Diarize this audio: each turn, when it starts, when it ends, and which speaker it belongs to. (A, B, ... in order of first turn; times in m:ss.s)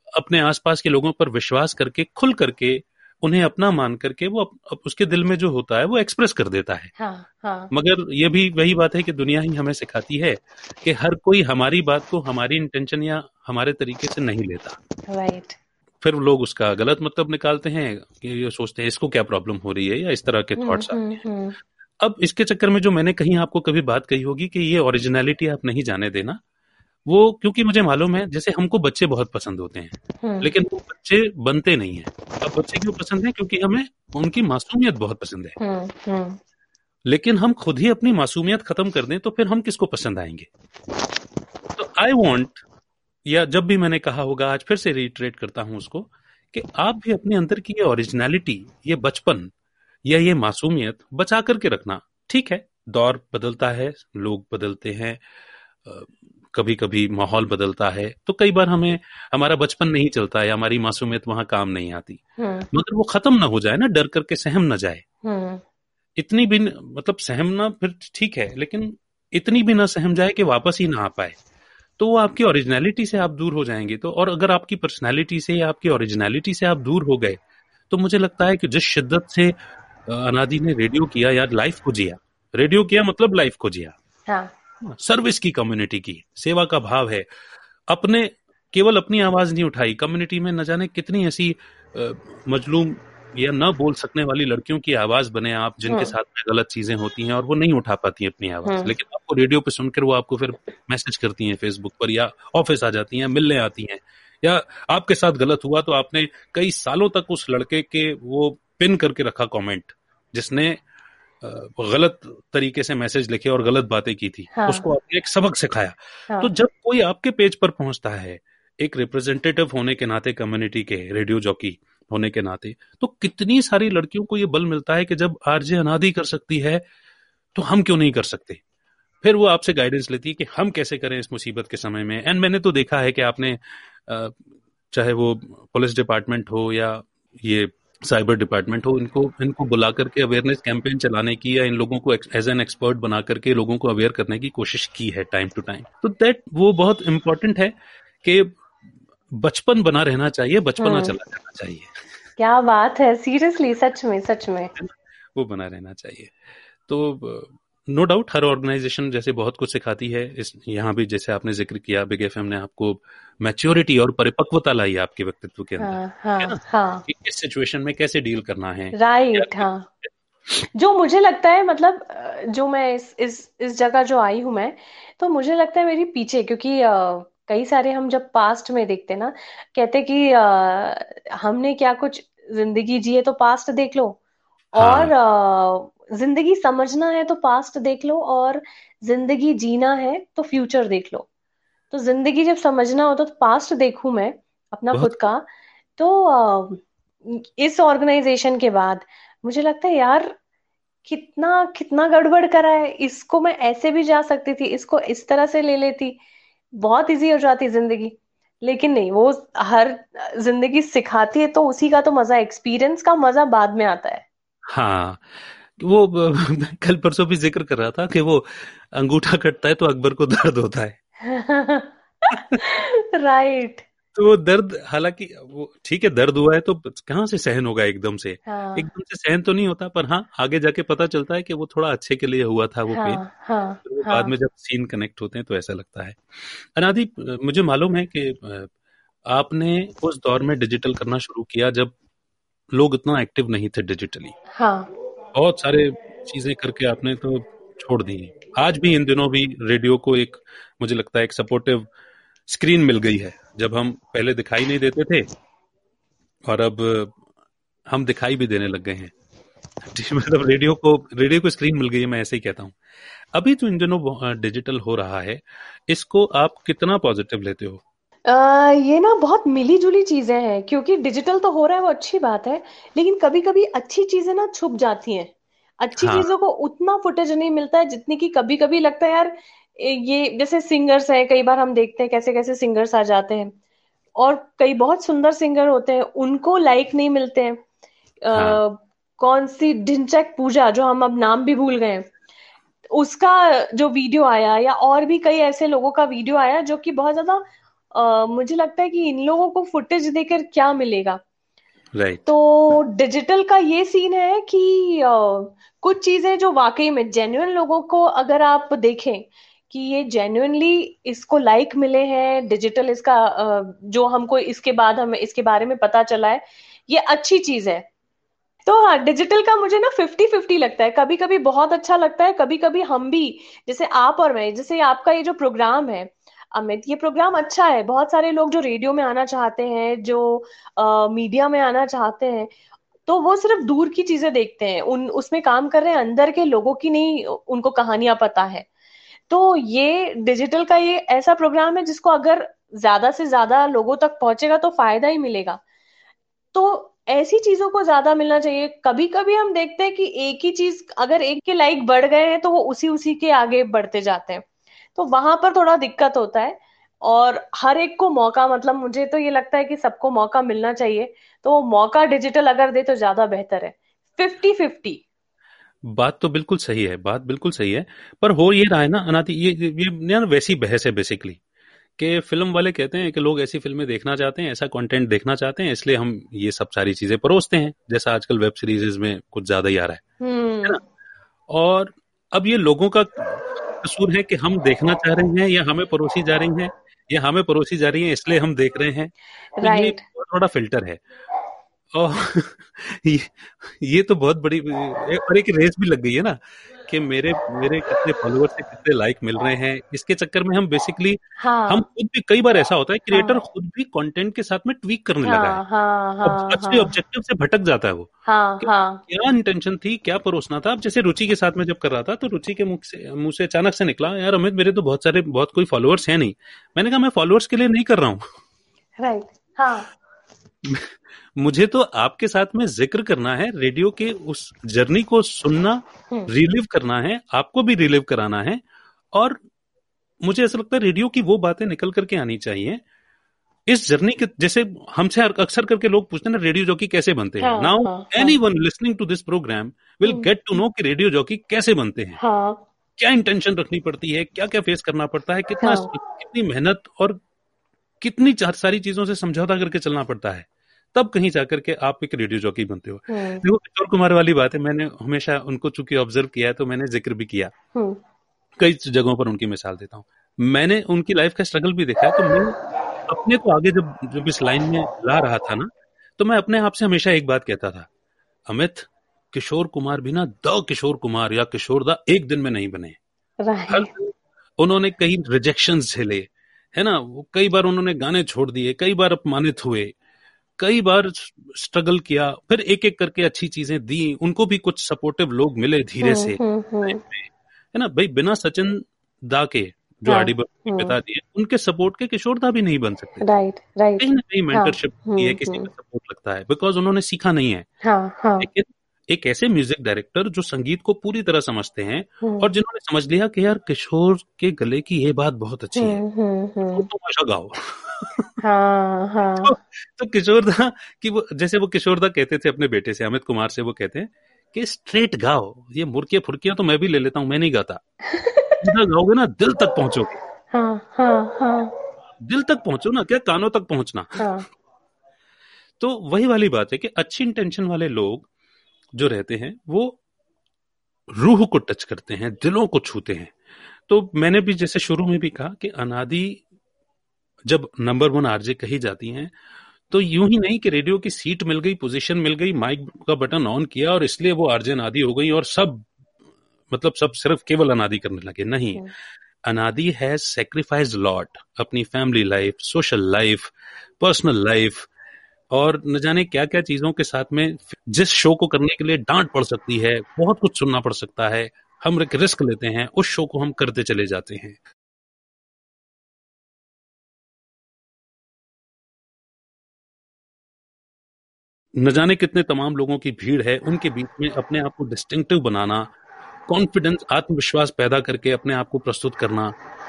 0:00.1-0:06.9 A
0:07.0-0:07.7 B
0:07.7-0:14.8 A
0:15.1-0:15.6 B
0:16.0-0:21.2 A
0:20.6-0:21.6 B
0:22.0-0:26.4 A
0:27.1-0:35.6 A
0:30.2-0:30.5 B
0:35.6-0:36.4 B
0:37.1-0:40.5 A
0:41.8-0:42.6 A
0:43.3-0:49.5 A
0:50.1-0:55.2 A
0:55.8-1:02.2 A
1:02.4-1:02.7 B
1:02.7-1:05.0 A
1:05.2-1:05.6 B
1:06.2-1:11.4 A
1:12.0-1:19.6 A
1:20.1-1:24.0 A
1:24.3-1:24.5 B
1:25.0-1:27.3 A
1:27.9-1:50.8 A
1:35.9-1:36.1 B
1:38.6-1:38.9 B
1:51.4-2:06.8 A
1:54.6-1:54.9 B
2:07.6-2:08.6 A
2:09.2-2:14.4 A
2:14.9-2:28.6 A
2:29.3-2:31.9 A
2:30.8-2:31.2 B
2:32.4-2:34.7 B
2:34.8-2:50.1 A
2:45.8-2:47.0 B
2:48.9-2:49.9 B
2:50.7-3:04.2 B
3:04.8-3:11.3 B
3:04.8-3:05.1 A
3:11.9-3:15.4 B
3:16.0-3:20.4 B
3:21.0-3:26.2 B
3:26.8-3:34.3 B
3:34.7-3:41.0 A
3:41.2-3:43.8 B
3:42.3-3:42.6 A
3:44.2-3:53.2 A
3:48.5-3:48.9 B
3:52.9-3:54.3 B
3:53.8-3:58.7 A
3:59.3-4:02.0 A
4:02.7-4:04.4 A
4:04.5-4:04.9 B
4:05.3-4:11.9 A
4:12.5-4:15.3 A
4:16.5-4:17.2 A
4:17.9-4:19.1 A
4:19.8-4:22.8 A
4:23.3-4:27.8 A
4:28.3-4:43.5 B
4:36.0-4:36.3 A
4:44.2-4:47.6 B
4:48.2-4:52.1 B
4:48.3-4:48.6 A
4:52.9-5:01.2 B
5:02.0-5:02.3 A
5:02.3-5:17.9 B
5:18.6-5:32.5 B
5:33.1-5:38.7 B
5:39.3-5:45.6 B
5:46.5-6:05.0 B
6:05.8-6:11.4 A
6:12.0-6:20.0 A
6:20.2-6:20.8 B
6:21.5-6:31.0 A
6:29.6-6:30.0 B
6:31.9-6:45.6 A
6:41.4-6:41.8 B
6:43.1-6:43.4 B
6:45.2-6:46.9 B
6:46.2-6:58.3 A
6:48.3-6:49.0 B
6:59.0-6:59.9 B
7:00.6-7:08.6 A
7:09.1-7:09.4 A
7:10.2-7:12.8 A
7:13.7-7:22.2 A
7:17.4-7:18.4 B
7:20.0-7:20.3 B
7:22.2-7:22.6 B
7:23.0-7:27.2 A
7:25.6-7:25.9 B
7:28.0-7:37.5 A
7:33.1-7:33.4 B
7:37.8-7:38.0 B
7:38.6-7:47.9 A
7:42.0-7:42.5 B
7:48.5-7:53.0 A
7:53.4-7:53.9 B
7:53.7-7:59.9 A
8:00.6-8:13.3 A
8:06.0-8:07.0 B
8:10.1-8:11.0 B
8:13.2-8:15.7 B
8:14.0-8:17.7 A
8:17.8-8:18.5 B
8:18.4-8:26.0 A
8:22.2-8:22.5 B
8:25.8-8:26.9 B
8:26.7-8:28.4 A
8:28.4-8:29.5 B
8:29.4-8:37.8 A
8:38.1-8:38.6 B
8:38.6-8:40.2 A
8:40.5-8:41.7 B
8:42.2-8:44.3 A
8:44.2-8:44.5 B
8:45.8-8:48.3 A
8:49.0-8:50.0 A
8:51.2-8:53.3 A
8:53.9-8:56.4 A
8:57.5-8:59.3 A
8:59.9-9:05.9 A
9:06.7-9:08.8 A
9:09.5-9:14.9 A
9:15.5-9:24.6 A
9:31.8-9:35.9 A
9:36.5-9:39.6 A